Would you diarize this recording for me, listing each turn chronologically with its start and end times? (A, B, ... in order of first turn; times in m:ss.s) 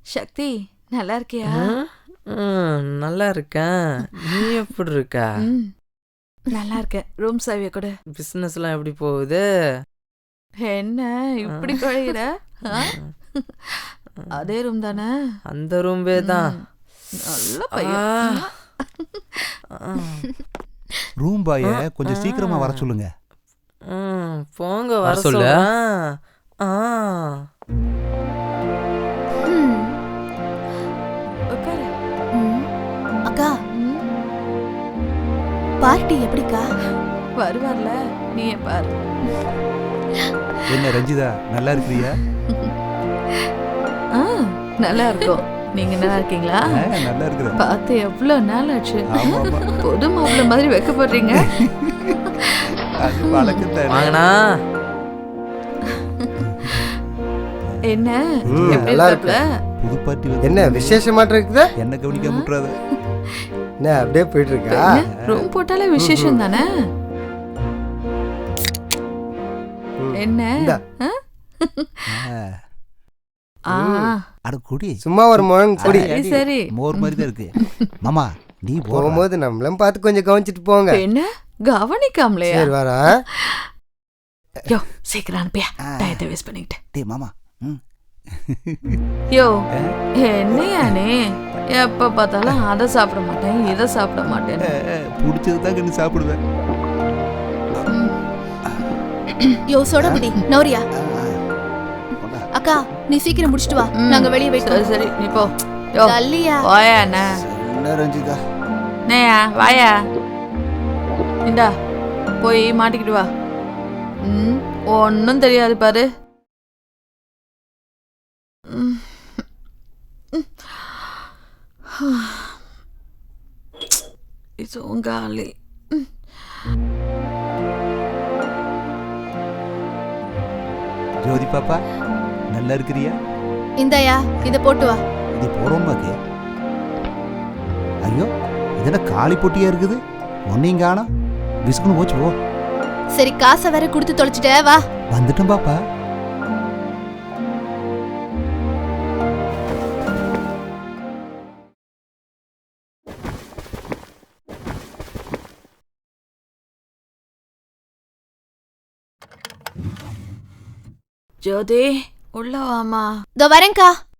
0:00.1-0:01.7 A
0:01.5-0:05.2 B
0:05.4-0:05.7 A
0:06.5-0:07.9 A
0:08.2-0:09.4 B
0:10.6-0:15.1 A
0:11.7-0:12.1 B
0:12.7-0:13.1 B
0:15.5-0:16.5 B
0:16.2-0:16.6 A
0:17.2-0:18.5 A
0:17.8-0:18.5 B
0:19.7-0:20.3 B
0:21.2-0:23.1 C
0:21.7-0:22.8 B
0:23.9-0:25.8 B
0:25.1-0:25.5 C
0:26.6-0:27.4 B
0:29.4-0:30.0 D
0:31.5-0:31.9 A
0:32.3-0:32.7 D
0:33.3-0:33.5 D
0:33.7-0:34.0 A
0:35.8-0:36.7 D
0:37.4-0:38.9 A
0:40.7-0:42.2 C
0:44.1-0:46.7 A
0:46.7-0:47.6 C
0:47.6-0:51.6 A
0:49.1-0:49.7 C
0:51.6-0:52.3 C
0:52.2-0:53.6 A
0:52.8-0:54.2 C
0:53.9-0:54.3 B
0:56.0-0:56.9 A
0:56.4-0:56.8 C
0:57.7-0:58.9 C
0:57.9-0:59.4 A
0:58.4-0:59.4 E
0:59.8-1:01.0 C
1:00.4-1:01.7 E
1:01.8-1:02.7 C
1:02.1-1:02.4 A
1:03.8-1:05.0 E
1:04.7-1:06.7 A
1:06.0-1:06.4 E
1:10.0-1:10.8 E
1:10.2-1:12.0 A
1:12.1-1:12.5 C
1:13.7-1:14.1 E
1:13.7-1:14.2 A
1:14.5-1:19.2 C
1:15.0-1:16.1 E
1:15.8-1:17.9 A
1:18.9-1:21.0 E
1:20.9-1:22.7 A
1:22.5-1:23.1 E
1:23.3-1:23.7 A
1:24.7-1:26.8 A
1:26.9-1:27.8 C
1:28.4-1:29.0 C
1:29.3-1:29.6 A
1:30.2-1:34.7 A
1:34.7-1:36.4 C
1:39.7-1:40.8 D
1:40.0-1:40.3 C
1:41.0-1:41.4 C
1:42.2-1:42.4 C
1:42.5-1:45.0 D
1:44.0-1:47.4 A
1:46.0-1:46.6 D
1:47.3-1:48.4 C
1:49.1-1:50.0 A
1:51.4-1:51.7 A
1:52.4-1:53.3 A
1:54.2-1:56.1 A
1:58.7-1:59.4 A
2:00.3-2:01.3 A
2:01.9-2:02.6 A
2:04.6-2:06.1 A
2:11.2-2:11.8 C
2:12.5-2:13.1 C
2:13.8-2:15.0 D
2:15.4-2:16.1 C
2:18.8-2:20.0 C
2:20.5-2:21.1 C
2:21.7-2:22.3 C
2:23.2-2:24.8 D
2:25.1-2:25.8 C
2:41.4-2:43.1 A
2:43.4-2:43.9 D